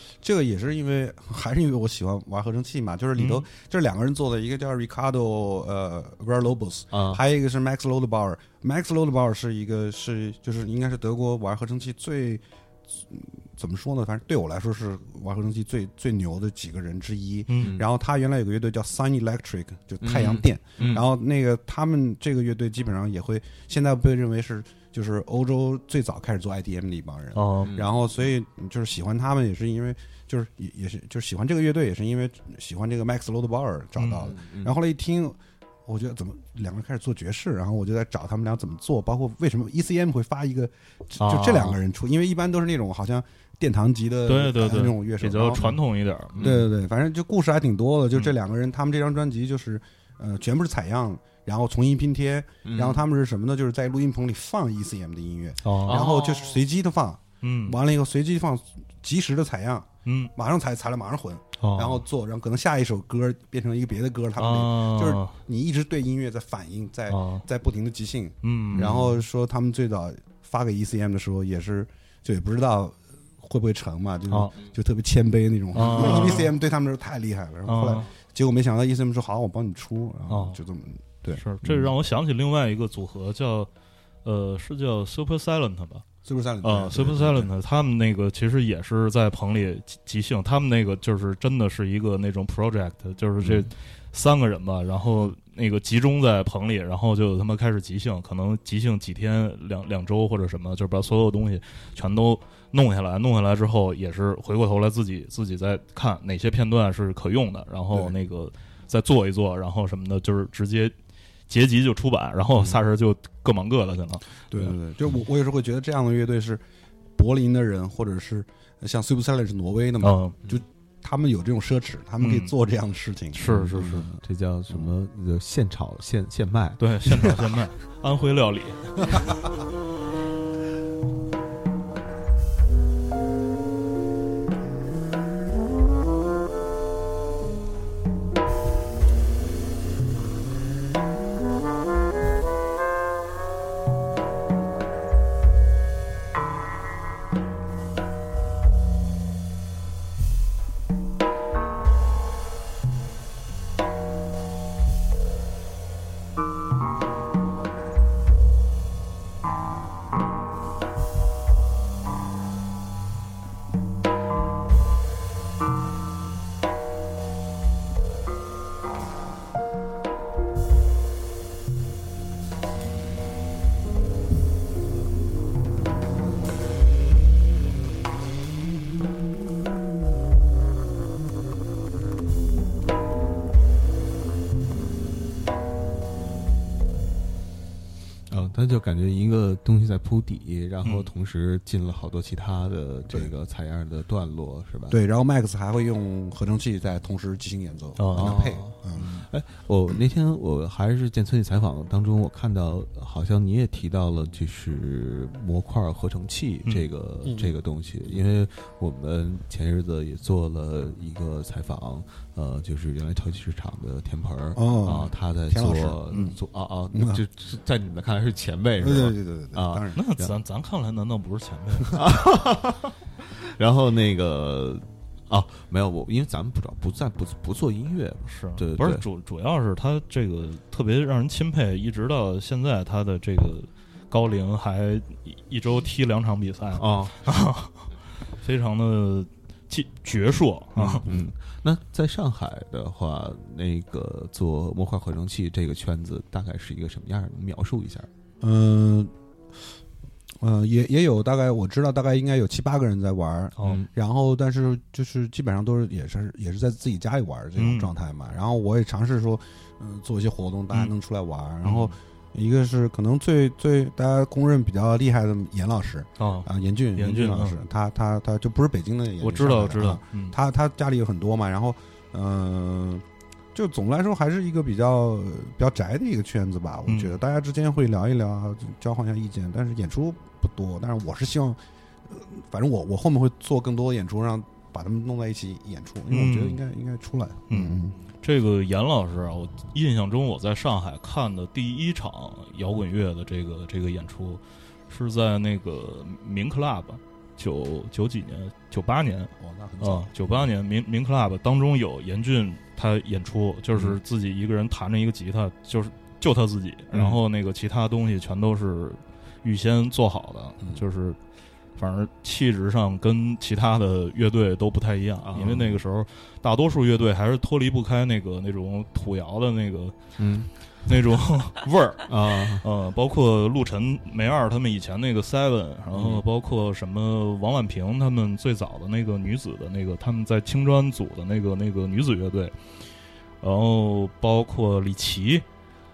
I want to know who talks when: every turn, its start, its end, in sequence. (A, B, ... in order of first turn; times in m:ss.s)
0:00.2-0:45.7 A
0:03.2-0:03.5 B
0:06.9-0:07.2 C
0:17.5-0:17.8 B
0:20.0-0:21.0 C
0:27.3-0:27.7 B
0:27.6-0:27.9 C
0:34.0-0:34.3 B
0:34.2-0:34.7 C
0:41.2-0:41.8 B
0:44.2-0:46.5 B
0:46.3-0:46.7 C
0:46.4-1:21.4 A
0:52.6-0:53.0 C
0:55.6-0:56.0 B
0:55.9-0:56.6 C
0:57.4-0:57.8 B
1:00.0-1:00.3 B
1:01.6-1:02.0 B
1:04.4-1:05.4 B
1:07.1-1:07.4 B
1:08.4-1:09.2 B
1:14.3-1:14.6 B
1:15.7-1:16.5 B
1:17.7-1:18.1 B
1:20.3-1:20.6 B
1:21.3-1:23.7 B
1:24.2-1:26.0 B
1:26.2-1:27.5 A
1:26.6-1:50.9 B
1:51.5-1:54.7 B
1:54.5-1:56.6 A
1:57.2-2:04.2 A
2:00.0-2:00.4 B
2:02.2-2:02.5 B
2:03.3-2:04.0 B
2:03.4-2:07.4 C
2:06.8-2:09.4 B
3:08.3-3:15.0 C
3:10.8-3:11.1 B
3:14.9-3:19.1 A
3:18.0-3:19.3 B
3:18.2-3:40.3 C
3:27.2-3:27.6 A
3:34.5-3:36.4 A
3:36.9-3:37.2 A
3:38.8-3:40.0 A
3:39.9-3:42.0 B
3:41.9-3:49.0 C
3:48.2-3:57.9 B
3:56.8-3:57.2 C
3:58.4-4:01.0 B
4:00.9-4:08.1 C
4:08.4-4:09.1 A
4:10.4-4:48.0 A
4:13.6-4:13.9 C
4:17.6-4:17.9 B
4:21.6-4:21.9 B
4:26.2-4:27.6 B
4:29.2-4:30.4 B
4:36.9-4:37.2 B
4:46.1-4:46.6 B
4:47.5-5:11.2 B
4:59.4-5:00.1 A
5:06.9-5:07.2 C
5:11.8-5:20.0 B
5:15.2-5:15.8 C
5:20.2-5:20.5 C
5:20.8-5:32.6 B
5:22.1-5:22.6 C
5:25.9-5:26.2 C
5:33.4-5:35.4 B